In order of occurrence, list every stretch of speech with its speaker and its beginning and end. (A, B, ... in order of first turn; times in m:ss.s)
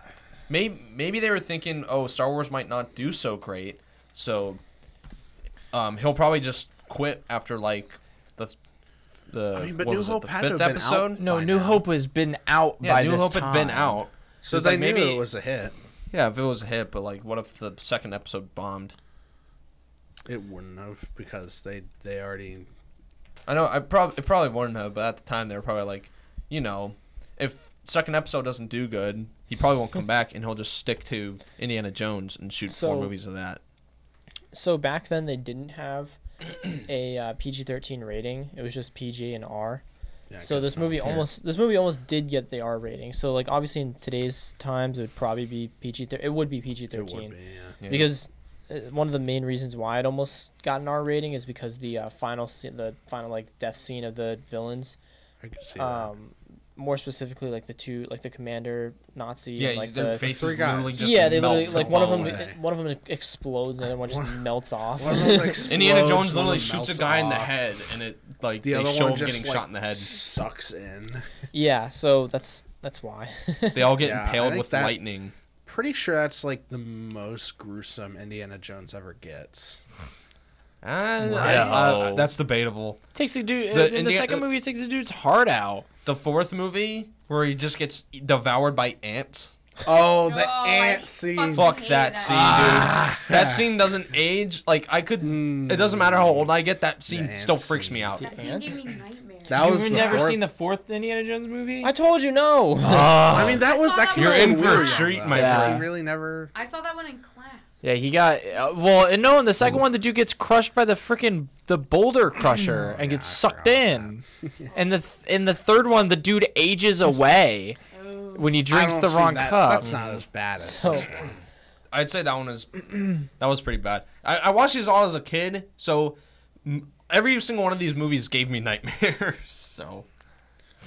0:00.5-0:04.6 A
0:05.7-0:08.6 A
0:09.3-0:11.2 A
0:09.5-0:11.8 B
0:11.2-0:14.0 C
0:12.8-0:15.2 A
0:14.4-0:15.8 B
0:16.1-0:18.9 A
0:20.3-0:22.7 B
0:23.5-0:33.6 A
0:32.7-0:33.1 D
0:34.5-0:39.8 D
0:40.3-0:41.3 B
0:40.4-0:47.4 D
0:46.9-0:47.8 B
0:47.8-0:48.1 A
0:47.9-0:55.0 D
0:55.4-0:56.1 B
0:55.8-1:00.3 D
0:59.6-1:02.4 A
1:00.2-1:02.6 B
1:01.0-1:05.7 D
1:04.1-1:04.4 B
1:05.0-1:07.5 B
1:05.7-1:10.1 A
1:08.6-1:11.3 B
1:11.5-1:14.0 D
1:13.7-1:15.3 A
1:14.0-1:15.0 B
1:15.6-1:19.8 B
1:20.8-1:23.0 A
1:21.3-1:22.3 C
1:21.3-1:22.0 B
1:23.1-1:25.9 C
1:23.7-1:24.4 A
1:26.0-1:29.5 A
1:29.9-1:31.8 B
1:29.9-1:32.9 E
1:31.5-1:38.3 A
1:32.2-1:33.3 C
1:32.5-1:33.7 B
1:35.2-1:36.5 B
1:37.1-1:38.2 B
1:38.2-1:40.3 E
1:38.2-1:38.8 D
1:39.5-1:40.4 B
1:39.5-1:41.9 C
1:41.8-1:43.4 D
1:42.8-1:43.6 C
1:43.2-1:46.5 B
1:43.6-1:45.3 E
1:44.1-1:45.9 A
1:45.3-1:45.9 C
1:46.5-1:47.8 E
1:47.8-1:54.2 C
1:52.7-1:54.5 B
1:54.6-1:55.0 E
1:54.7-1:57.8 C
1:57.9-1:58.6 E
1:58.4-1:59.9 C
1:58.7-2:01.4 B
1:59.8-2:00.2 A
2:00.6-2:01.1 D
2:01.9-2:10.1 A